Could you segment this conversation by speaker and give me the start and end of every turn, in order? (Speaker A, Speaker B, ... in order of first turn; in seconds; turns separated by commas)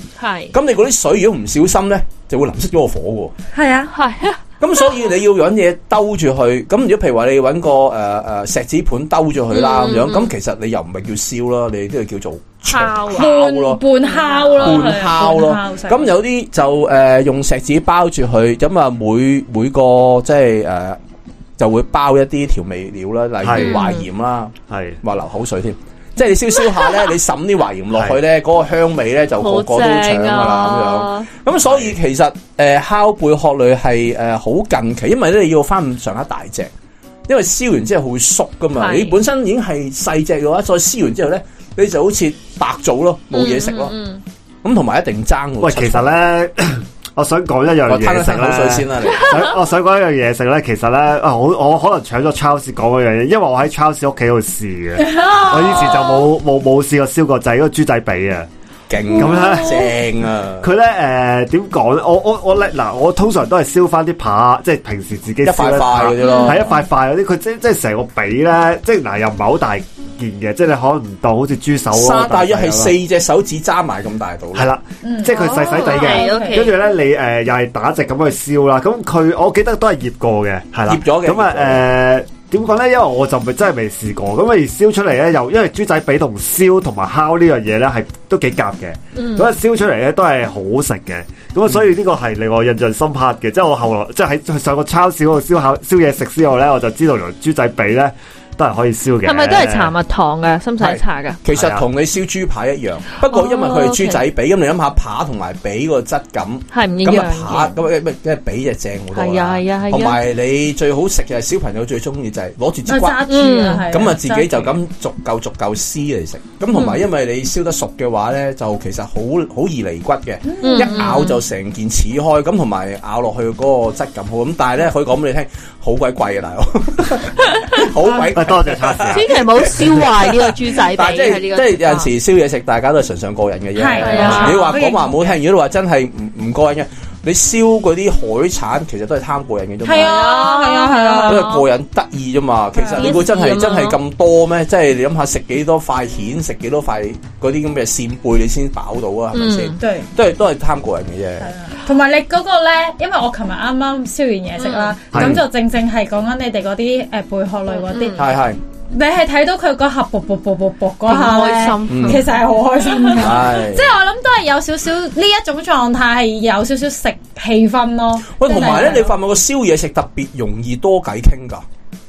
Speaker A: 0.2-0.5, Speaker B: 0.5-3.3, Speaker C: 3.5-3.9, Speaker A: 3.9-4.4, Speaker B: 4.6-13.8, Speaker A: 9.5-10.3, Speaker A: 12.7-13.3, Speaker C: 13.2-16.1, Speaker A: 14.0-14.9, Speaker B: 14.6-21.0, Speaker B: 21.6-36.7, Speaker D: 23.4-23.8, Speaker A: 23.6-24.1, Speaker D: 24.7-25.0, Speaker A: 29.4-31.3, Speaker D: 31.6-31.9, Speaker B: 37.3-44.0, Speaker A: 38.8-39.2, Speaker A: 43.3-44.2, Speaker B: 44.6-46.1, Speaker D: 45.6-58.5, Speaker B: 47.9-49.5, Speaker C: 55.1-56.1, Speaker B: 58.9-60.7, Speaker D: 59.1-59.9, Speaker A: 59.2-59.8, Speaker D: 60.6-73.0, Speaker B: 65.5-66.7, Speaker A: 66.2-66.7, Speaker B: 71.9-74.7, Speaker D: 74.5-99.9, Speaker C: 75.0-76.7, Speaker A: 75.3-76.8, Speaker B: 80.9-81.8, Speaker A: 89.2-89.5, Speaker A: 99.2-101.4, Speaker B: 100.8-113.3, Speaker D: 101.5-101.9, Speaker A: 103.3-104.2, Speaker A: 106.7-107.8, Speaker A: 109.1-110.2, Speaker C: 112.9-114.7, Speaker A: 113.3-113.9, Speaker B: 113.9-140.3, Speaker A: 116.7-117.0, Speaker C: 120.5-121.3, Speaker A: 120.6-121.4, Speaker D: 128.3-130.0, Speaker A: 129.1-132.1, Speaker C: 133.8-135.3, Speaker A: 134.0-134.8, Speaker C: 139.8-141.5, Speaker A: 139.9-141.7, Speaker B: 141.2-151.5, Speaker C: 142.8-143.2, Speaker A: 142.9-144.0, Speaker A: 149.3-149.8, Speaker C: 149.8-150.1, Speaker C: 151.4-169.1, Speaker A: 154.6-154.9, Speaker D: 155.1-155.4, Speaker B: 155.1-155.4, Speaker A: 157.8-158.2, Speaker B: 158.2-158.6, Speaker A: 161.1-163.2, Speaker B: 161.9-162.3, Speaker B: 163.1-163.9, Speaker B: 168.3-171.6